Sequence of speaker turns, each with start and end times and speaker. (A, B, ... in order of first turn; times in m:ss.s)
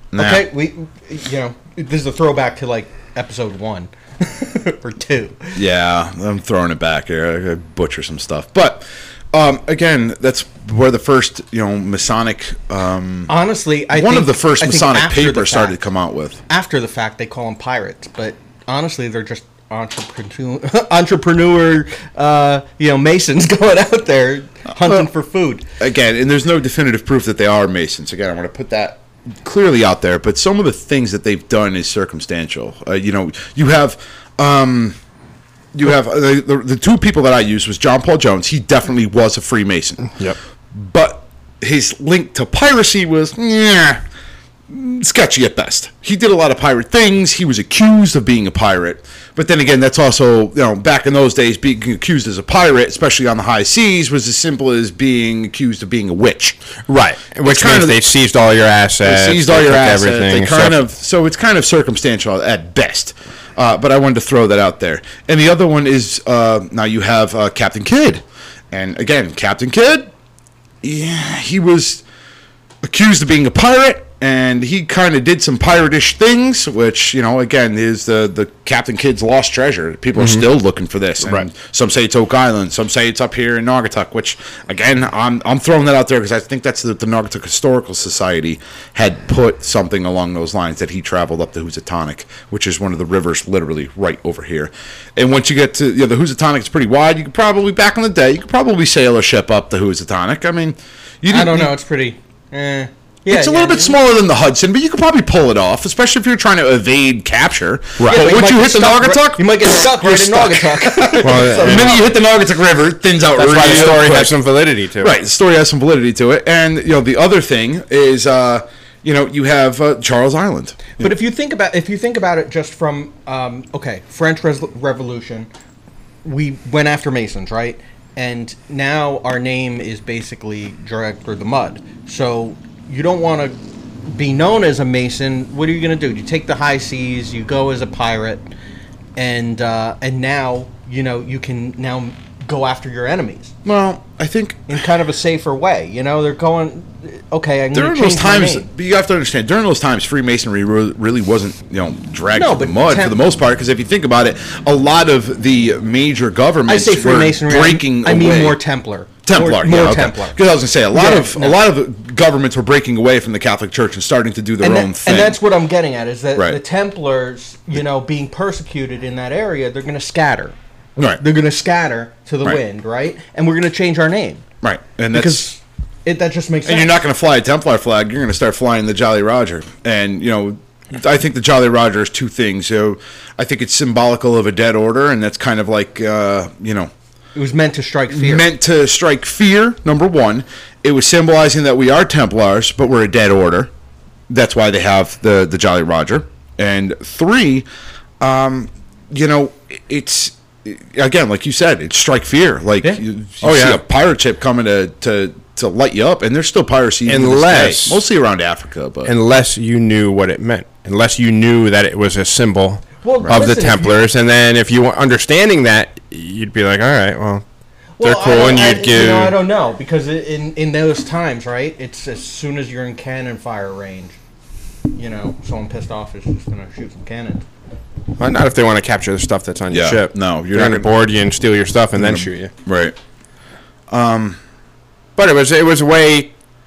0:00.1-0:00.5 A
0:00.2-0:05.6 B
0:05.6-0:13.3 A
0:13.3-0:15.8 B
0:13.9-0:16.4 A
0:16.5-0:25.6 B
0:24.8-0:25.1 A
0:25.8-0:35.0 A
0:35.7-0:40.1 A
0:40.7-0:44.0 A
0:44.7-0:56.6 A
0:56.9-1:00.8 C
0:57.4-0:58.0 A
0:59.0-1:10.1 A
1:10.8-1:12.0 A
1:12.8-1:41.8 A
1:20.2-1:20.4 C
1:41.3-1:44.0 B
1:43.3-1:54.4 A
1:48.0-1:48.2 C
1:48.0-1:52.1 B
1:51.2-1:52.0 C
1:53.4-1:55.1 C
1:55.0-2:01.1 A
2:01.0-2:05.5 B
2:06.2-2:18.5 B
2:19.2-2:23.6 B
2:23.6-2:24.8 A
2:24.7-2:28.7 B
2:27.7-2:38.6 A
2:32.4-2:33.2 B
2:36.7-2:40.4 B
2:39.2-2:45.4 A
2:40.9-2:41.6 B
2:44.6-2:50.6 B
2:46.4-2:46.6 A
2:51.0-2:51.2 A
2:51.2-2:54.4 B
2:54.6-2:55.5 A
2:55.1-2:57.0 B
2:56.6-3:06.9 A
3:07.4-3:08.5 B
3:08.1-3:13.7 A
3:14.3-3:17.7 A
3:18.2-3:29.1 A
3:23.4-3:23.8 C
3:27.1-3:28.0 C
3:29.0-3:37.4 C
3:33.0-3:34.0 B
3:38.0-3:44.2 B
3:38.0-3:39.4 C
3:44.9-3:47.4 B
3:48.2-3:52.5 C
3:49.7-3:50.9 A
3:52.0-3:53.0 A
3:53.9-3:54.4 A
3:55.2-3:56.4 C